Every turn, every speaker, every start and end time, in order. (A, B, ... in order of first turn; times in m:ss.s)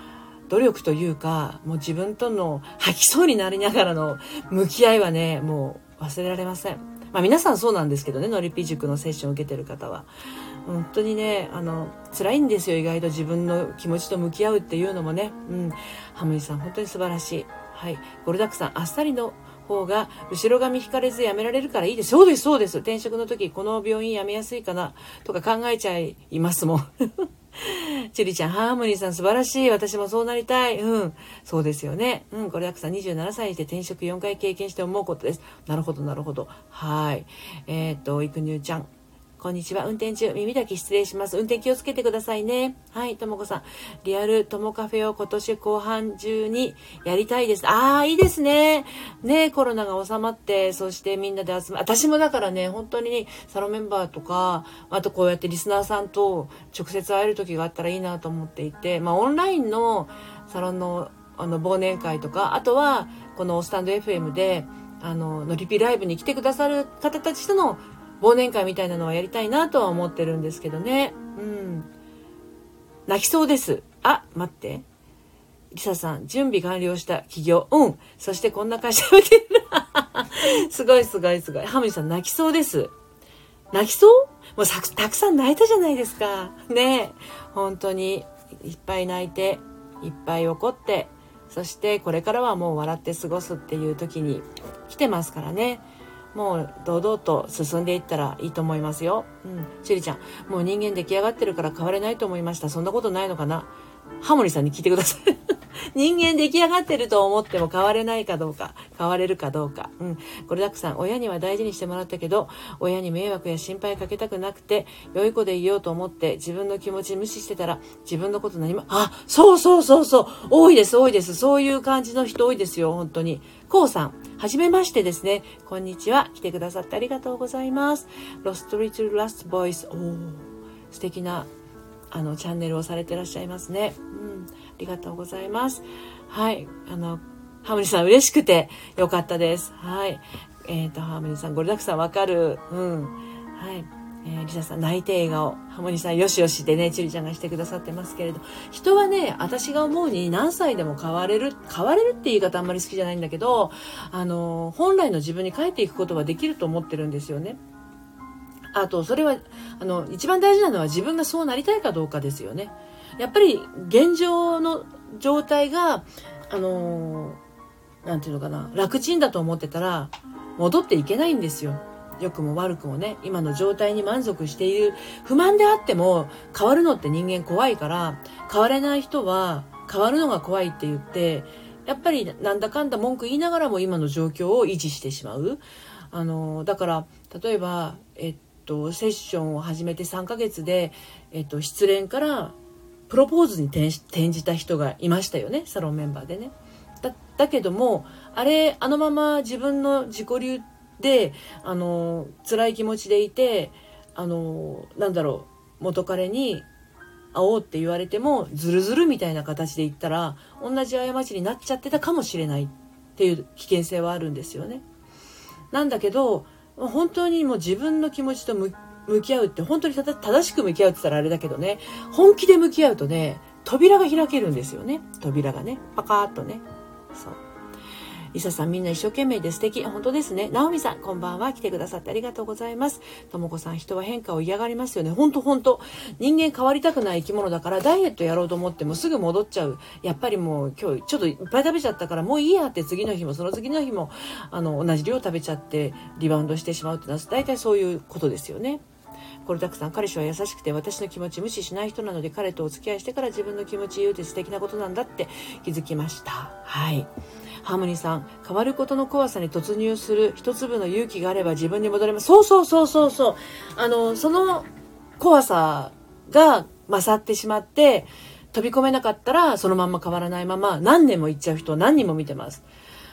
0:00.5-0:10.1 A
0:10.7-1:11.9 A
1:13.1-1:14.8 A
1:15.7-1:22.9 A
1:23.7-2:11.5 A
2:12.1-2:37.6 A
2:38.7-2:47.4 A
2:48.0-3:12.6 A
3:13.1-3:26.7 A
3:27.3-3:34.8 A
3:35.7-3:47.4 A
3:48.3-4:08.8 A
4:09.4-4:17.1 A
4:17.6-4:24.7 A
4:25.2-4:32.6 A